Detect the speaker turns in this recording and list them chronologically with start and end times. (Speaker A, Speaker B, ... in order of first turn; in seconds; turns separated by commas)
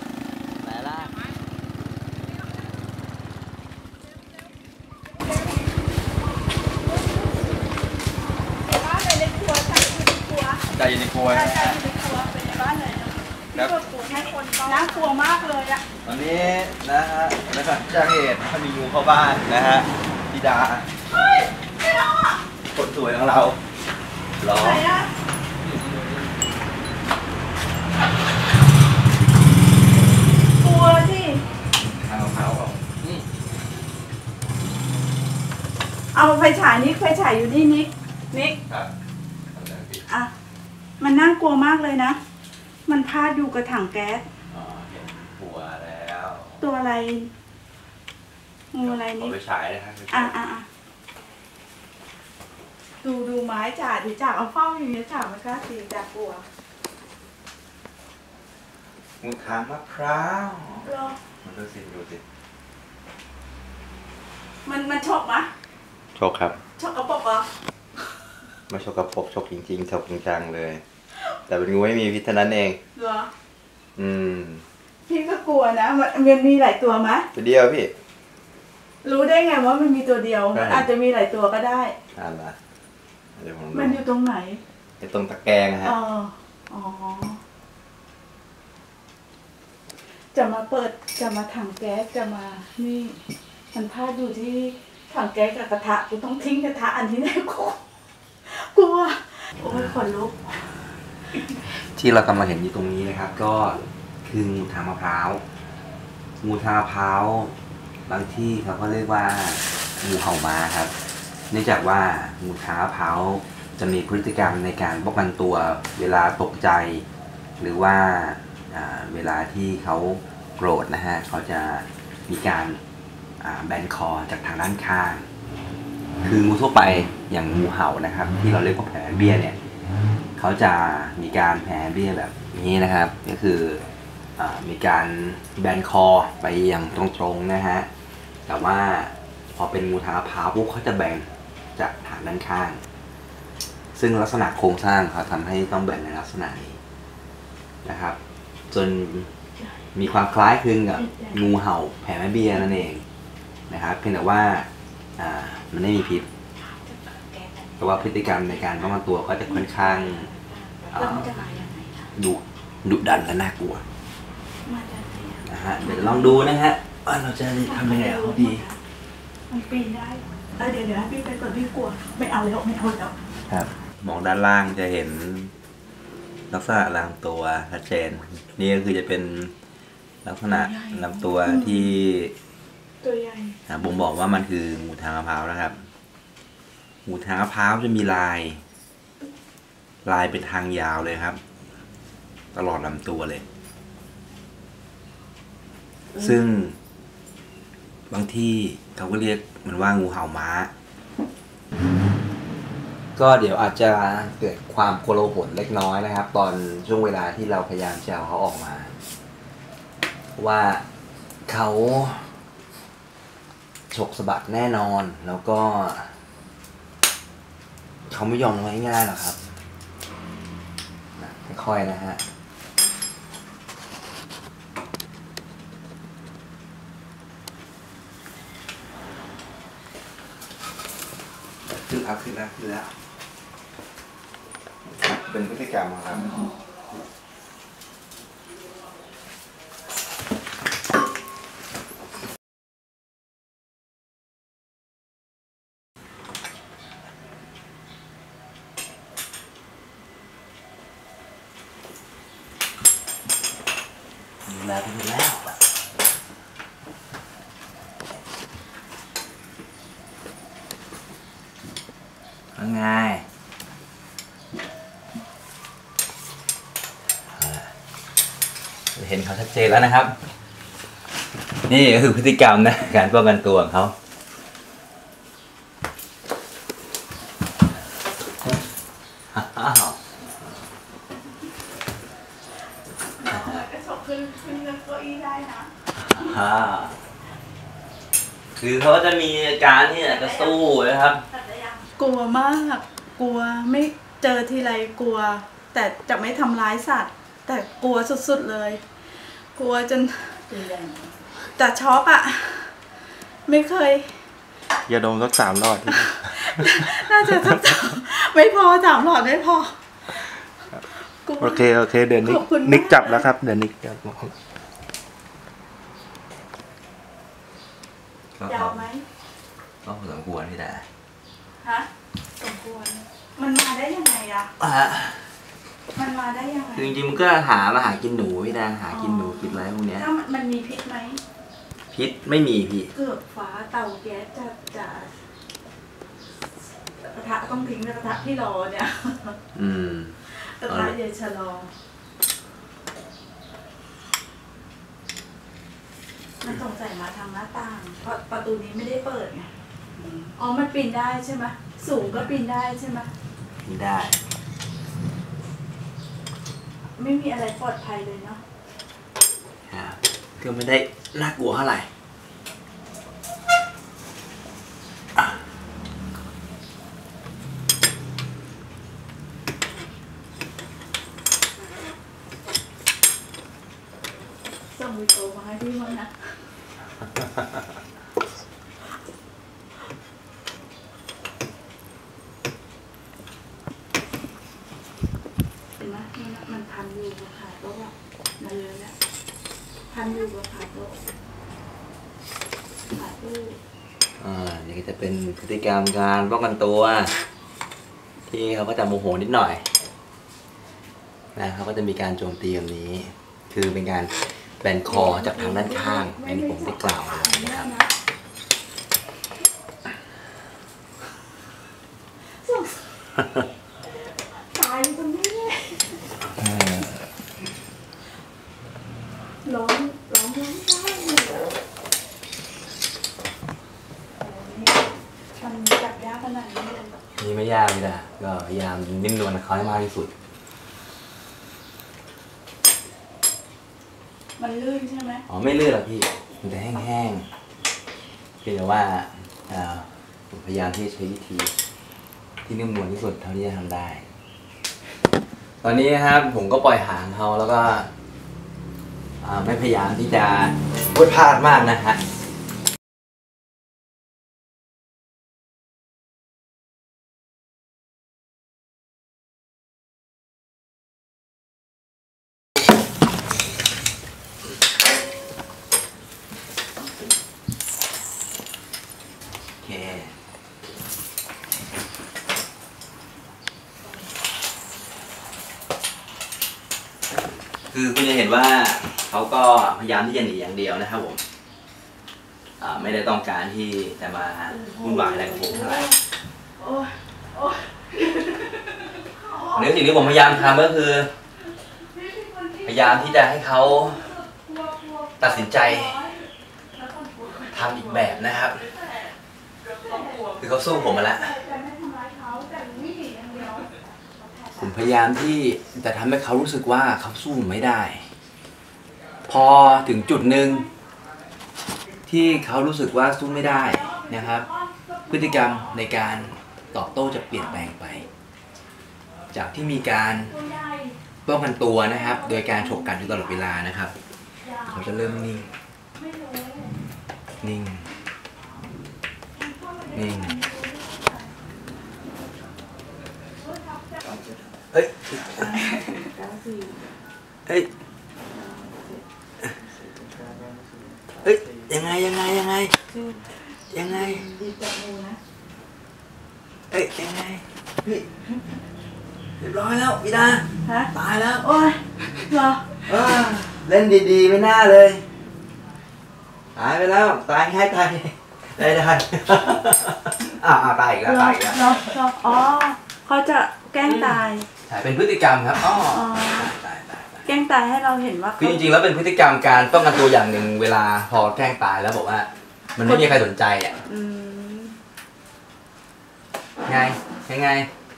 Speaker A: 0.6-1.1, Speaker B: 7.0-7.4, Speaker B: 8.6-10.6, Speaker A: 10.7-11.8, Speaker B: 11.3-15.8, Speaker A: 13.5-13.8, Speaker A: 16.0-20.9, Speaker B: 21.1-22.4, Speaker A: 22.7-23.6, Speaker A: 24.4-24.9, Speaker B: 24.5-25.1, Speaker B: 30.6-31.4, Speaker A: 32.0-33.2, Speaker B: 36.1-38.6, Speaker A: 39.5-40.1, Speaker B: 41.0-42.2, Speaker B: 42.9-44.2, Speaker A: 44.5-46.6, Speaker B: 46.6-47.3, Speaker B: 48.7-49.3, Speaker A: 48.8-50.3, Speaker B: 50.1-50.6, Speaker B: 53.0-56.4, Speaker A: 59.2-60.9, Speaker B: 60.8-61.2, Speaker A: 61.4-62.2, Speaker B: 64.6-65.5, Speaker A: 66.1-66.6, Speaker B: 66.8-67.5, Speaker A: 68.7-70.8, Speaker A: 71.5-72.8, Speaker B: 72.9-73.3, Speaker A: 74.0-74.6, Speaker B: 75.1-77.3, Speaker A: 77.3-77.9, Speaker B: 79.0-81.9, Speaker A: 80.5-80.9, Speaker A: 82.1-82.5, Speaker A: 83.4-84.0, Speaker B: 83.7-84.6, Speaker A: 85.0-86.0, Speaker B: 85.8-87.4, Speaker B: 90.3-93.2, Speaker B: 93.7-97.8, Speaker B: 98.4-100.8, Speaker A: 99.6-100.0, Speaker A: 101.9-105.4, Speaker A: 106.4-107.5, Speaker A: 108.1-110.9, Speaker A: 111.5-117.0, Speaker A: 117.6-122.8, Speaker A: 123.4-125.2, Speaker A: 126.2-129.6, Speaker A: 130.4-133.8, Speaker A: 134.4-137.9, Speaker A: 138.5-142.8, Speaker A: 143.9-146.8, Speaker A: 147.8-148.2, Speaker A: 148.7-149.3, Speaker A: 149.9-153.0, Speaker B: 150.9-151.4, Speaker A: 153.7-154.7, Speaker A: 155.2-156.3, Speaker B: 156.6-162.1, Speaker A: 157.8-160.3, Speaker A: 160.9-161.3, Speaker A: 162.1-163.8, Speaker B: 164.6-166.5, Speaker A: 165.4-168.6, Speaker B: 167.6-168.8, Speaker B: 169.5-173.1, Speaker A: 173.5-175.5, Speaker A: 176.5-179.5, Speaker A: 180.2-182.3, Speaker B: 180.5-182.0, Speaker B: 183.0-183.6, Speaker A: 183.7-185.8, Speaker A: 187.1-188.6, Speaker A: 190.0-191.4, Speaker A: 192.5-193.4, Speaker A: 196.1-196.8, Speaker A: 198.1-200.7, Speaker A: 203.2-208.9, Speaker A: 210.3-210.8, Speaker A: 211.5-212.3, Speaker A: 213.9-216.1, Speaker A: 218.1-219.4, Speaker A: 221.2-222.2, Speaker A: 231.7-232.9, Speaker A: 234.9-236.4, Speaker A: 254.4-255.6, Speaker A: 262.6-263.2, Speaker A: 267.3-267.7, Speaker A: 268.9-270.1, Speaker A: 271.7-273.9, Speaker A: 279.3-280.0, Speaker B: 283.2-286.2, Speaker A: 283.3-283.6, Speaker A: 286.1-287.0, Speaker A: 288.6-291.2, Speaker B: 290.0-290.6, Speaker B: 291.3-298.8, Speaker B: 299.5-302.7, Speaker B: 303.5-304.1, Speaker A: 304.9-305.8, Speaker C: 304.9-306.1, Speaker B: 305.9-309.7, Speaker B: 310.8-313.3, Speaker C: 311.4-314.3, Speaker A: 311.6-312.0, Speaker A: 318.4-318.9, Speaker B: 318.4-319.0, Speaker A: 319.8-320.8, Speaker B: 321.6-321.9, Speaker B: 322.4-324.5, Speaker A: 324.6-325.2, Speaker B: 325.9-326.9, Speaker A: 326.7-330.1, Speaker B: 328.9-331.2, Speaker A: 331.9-332.9, Speaker B: 332.9-335.1, Speaker B: 337.0-339.4, Speaker A: 339.5-340.1, Speaker B: 340.3-341.7, Speaker A: 340.7-341.0, Speaker B: 346.4-353.1, Speaker A: 353.6-354.2, Speaker B: 357.0-358.4, Speaker A: 359.7-361.9, Speaker B: 374.7-376.1, Speaker A: 377.1-377.6, Speaker B: 385.8-388.9, Speaker B: 389.9-391.0, Speaker B: 392.9-393.6, Speaker A: 394.2-397.1, Speaker A: 398.3-399.6, Speaker A: 401.3-407.7, Speaker B: 404.9-407.9, Speaker B: 412.4-412.9, Speaker B: 414.0-416.0, Speaker A: 416.4-417.0, Speaker B: 419.4-421.5, Speaker B: 424.2-426.9, Speaker A: 427.2-430.1, Speaker B: 434.4-435.2, Speaker A: 435.3-437.3, Speaker A: 438.4-441.5, Speaker A: 442.4-444.1, Speaker A: 445.6-447.9, Speaker A: 449.2-452.0, Speaker A: 469.6-470.1, Speaker A: 477.7-481.2, Speaker A: 482.6-485.9, Speaker B: 484.5-486.0, Speaker B: 486.6-490.7, Speaker A: 489.5-491.1, Speaker B: 491.8-499.1, Speaker A: 492.6-494.1, Speaker A: 495.2-496.0, Speaker A: 497.5-498.6, Speaker B: 499.7-504.9, Speaker A: 500.3-501.4, Speaker A: 504.6-508.1, Speaker A: 509.3-510.7, Speaker B: 510.3-510.6, Speaker A: 512.1-514.5, Speaker B: 513.4-515.8, Speaker A: 515.1-518.0, Speaker B: 517.4-518.0, Speaker A: 519.3-520.3, Speaker B: 520.3-521.0, Speaker A: 521.2-523.9, Speaker B: 522.0-523.1, Speaker B: 524.4-525.1, Speaker A: 524.6-525.5, Speaker B: 526.0-526.7, Speaker A: 527.4-527.9, Speaker B: 529.4-531.3, Speaker A: 529.9-530.4, Speaker A: 534.7-535.8, Speaker B: 535.5-536.8, Speaker B: 538.5-539.0, Speaker A: 541.2-542.8, Speaker B: 542.9-545.2, Speaker A: 543.7-544.2, Speaker A: 546.7-548.0, Speaker A: 549.4-551.5, Speaker B: 550.6-550.9, Speaker B: 551.4-552.8, Speaker A: 552.9-555.0, Speaker A: 556.5-561.9, Speaker B: 561.0-564.5, Speaker A: 563.8-567.2, Speaker B: 565.8-566.5, Speaker B: 567.2-568.6, Speaker A: 568.4-573.8, Speaker B: 572.8-573.2, Speaker B: 573.8-574.8, Speaker A: 576.6-577.7